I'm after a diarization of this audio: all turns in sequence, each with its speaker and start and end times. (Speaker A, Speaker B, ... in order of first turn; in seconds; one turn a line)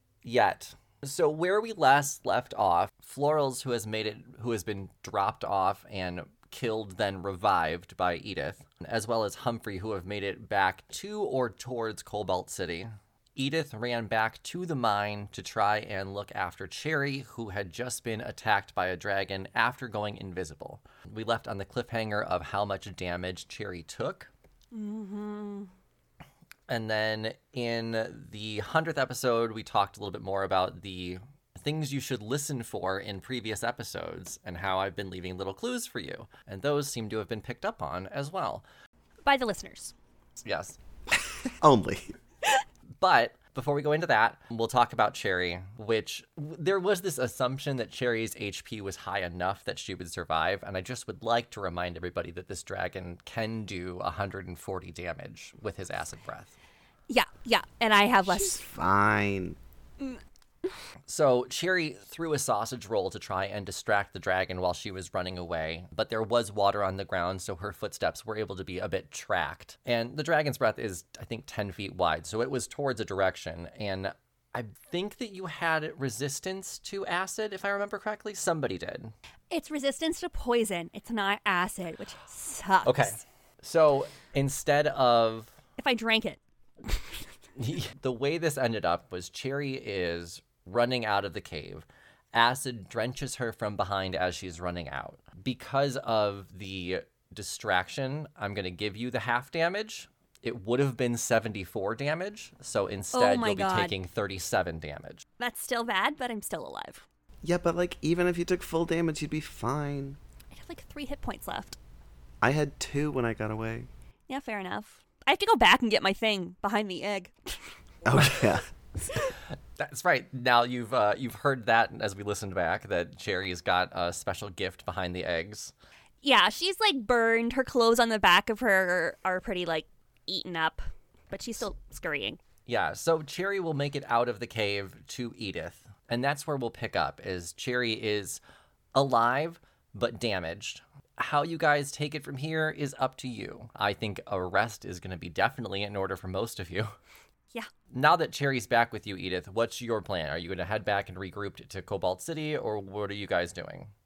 Speaker A: 0.2-24.3
Speaker B: 24.7-25.7
Speaker A: 26.7-38.6
Speaker B: 39.2-39.9
Speaker A: 40.4-40.8
Speaker C: 41.6-42.1
Speaker A: 43.0-56.5
Speaker B: 57.1-58.6
Speaker C: 58.2-59.6
Speaker A: 61.1-79.1
Speaker B: 79.5-83.2
Speaker A: 82.8-85.5
Speaker B: 85.8-87.2
Speaker A: 87.6-105.2
Speaker B: 103.1-103.9
Speaker B: 105.4-107.0
Speaker C: 107.4-110.2
Speaker B: 110.5-111.8
Speaker C: 112.4-113.9
Speaker B: 114.3-117.6
Speaker C: 118.0-118.6
Speaker A: 119.8-125.7
Speaker B: 126.2-132.4
Speaker A: 132.7-138.4
Speaker A: 138.9-146.9
Speaker A: 147.9-153.9